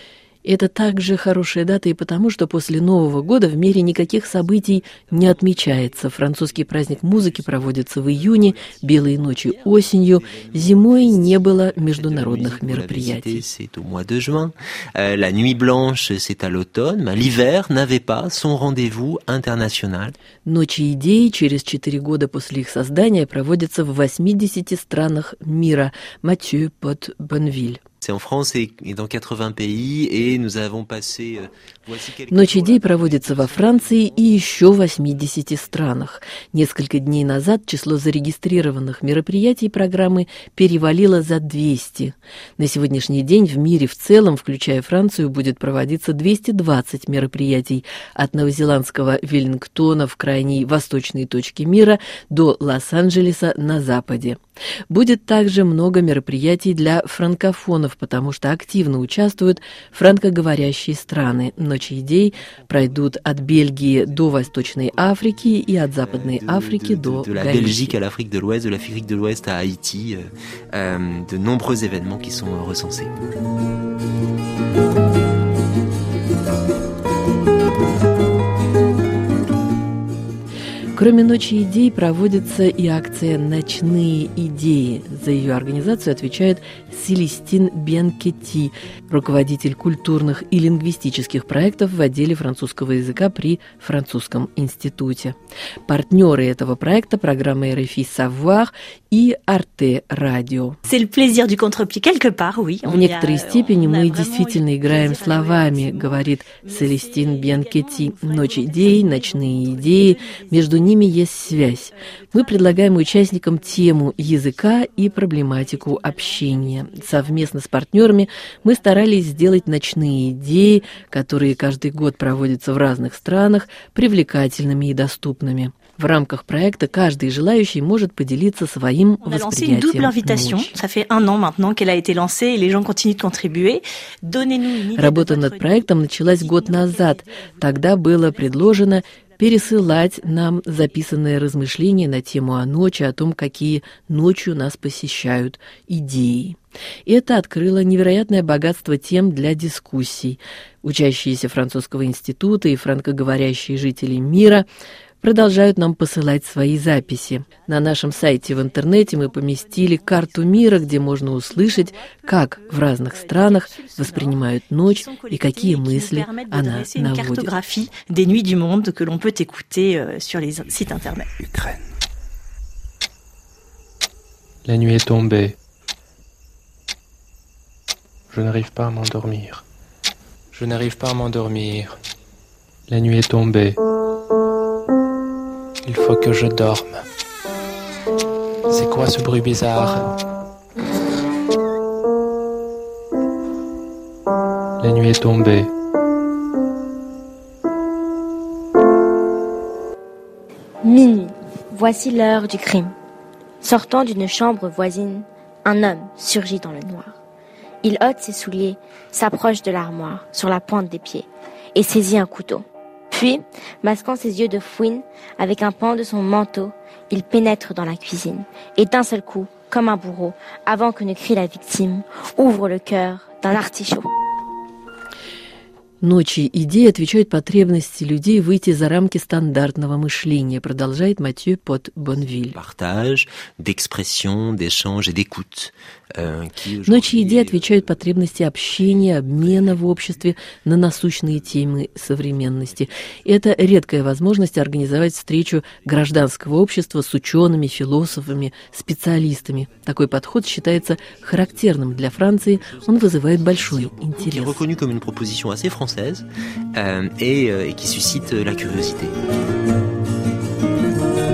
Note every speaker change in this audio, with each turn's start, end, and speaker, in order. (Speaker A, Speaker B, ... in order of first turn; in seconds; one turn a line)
Speaker A: 0.4-13.4
Speaker B: 4.2-20.2
Speaker A: 20.4-27.8
Speaker B: 28.0-35.1
Speaker A: 32.3-68.0
Speaker B: 66.0-73.3
Speaker A: 81.0-95.3
Speaker A: 95.9-100.8
Speaker C: 100.8-119.7
Speaker A: 102.8-130.7
Speaker C: 129.2-140.7
Speaker A: 134.9-154.7
Speaker A: 155.2-167.5
Speaker C: 157.9-171.3
Speaker D: 174.7-175.5
Speaker D: 178.3-179.7
Speaker D: 180.5-181.9
Speaker D: 182.9-183.8
Speaker D: 185.8-187.0
Speaker D: 188.7-190.1
Speaker D: 194.8-195.7
Speaker E: 200.8-202.9
Speaker E: 203.6-207.1
Speaker E: 207.8-224.1
Speaker A: 226.0-232.6
Speaker B: 232.5-240.3
Speaker A: 236.8-254.7
Speaker B: 242.6-243.1
Speaker B: 251.0-259.1